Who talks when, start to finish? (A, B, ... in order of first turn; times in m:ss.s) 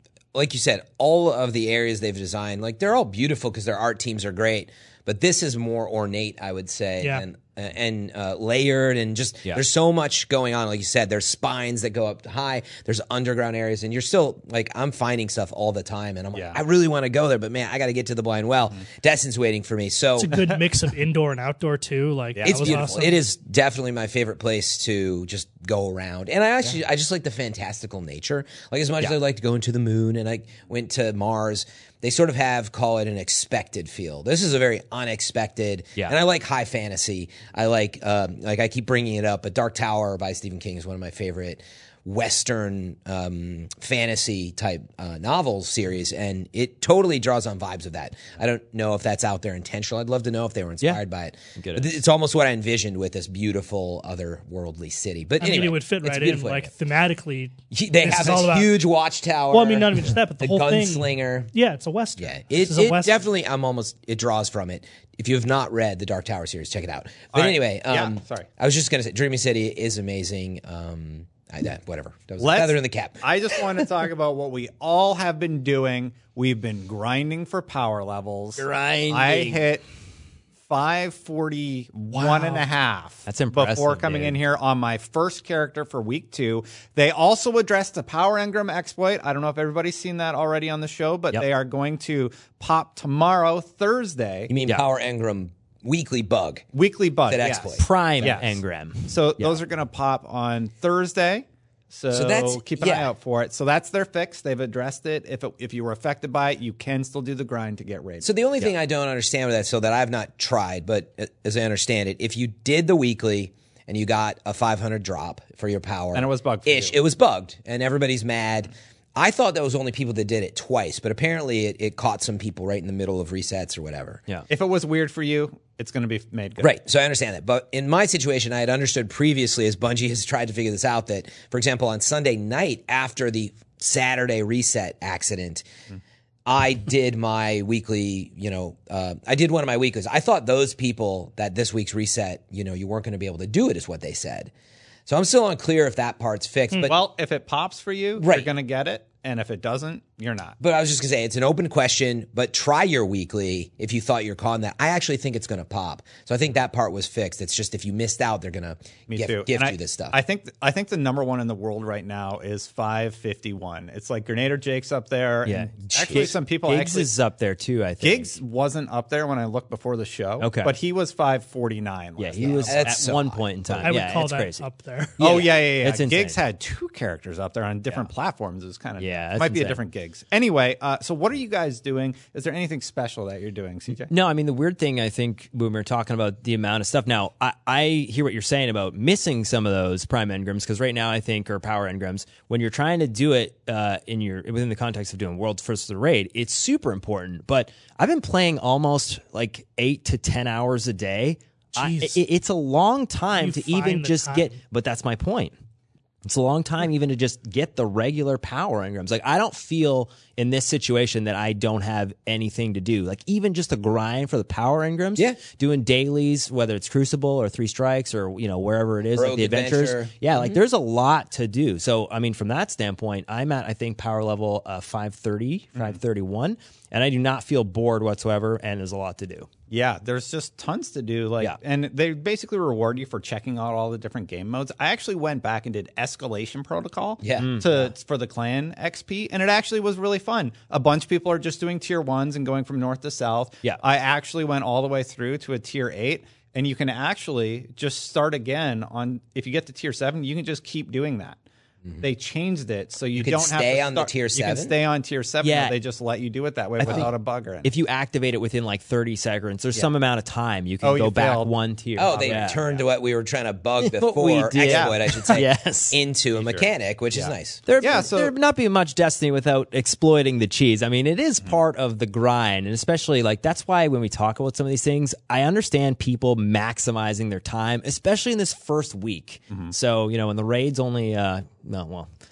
0:00.3-0:20.4 A
0:16.3-0:16.6 B
0:20.2-0:23.2 C
0:22.4-0:22.8 B
0:22.4-0:56.7 A
0:51.6-0:51.9 D
0:55.4-0:58.7 C
0:57.7-1:01.5 A
0:59.5-1:03.2 C
1:02.2-1:13.2 A
1:07.3-1:08.5 B
1:12.4-1:19.8 B
1:18.6-1:19.6 D
1:20.7-1:34.5 B
1:23.2-1:24.4 D
1:34.5-1:36.6 A
1:36.7-1:48.3 B
1:37.3-1:38.3 A
1:37.8-1:39.6 D
1:42.1-1:43.1 A
1:48.2-2:04.2 A
1:56.1-1:57.0 B
2:04.5-2:06.7 B
2:06.6-2:15.7 A
2:16.4-2:24.5 A
2:25.1-2:26.9 A
2:26.8-2:30.6 B
2:28.2-2:28.5 A
2:30.6-2:40.2 A
2:39.1-2:47.1 B
2:45.4-2:48.3 D
2:45.9-2:46.3 A
2:48.0-2:53.1 B
2:50.4-2:50.7 D
2:52.2-2:54.6 D
2:52.6-2:53.9 A
2:53.8-2:55.2 C
2:55.2-2:56.4 D
2:55.2-3:04.1 B
2:59.0-2:59.8 D
3:04.1-3:25.5 D
3:21.8-3:22.2 C
3:23.3-3:24.5 C
3:26.2-3:49.5 D
3:39.2-3:40.6 A
3:49.7-4:11.4 B
3:57.2-3:57.6 A
3:57.4-3:57.9 D
4:12.0-4:17.7 B
4:13.2-4:14.7 A
4:15.4-4:15.8 D
4:16.8-4:17.1 D
4:17.6-4:22.6 D
4:20.8-4:21.5 B
4:22.0-4:27.6 A
4:22.0-4:22.8 B
4:23.8-4:26.0 D
4:24.6-4:25.3 B
4:26.3-4:28.3 B
4:27.6-4:42.1 D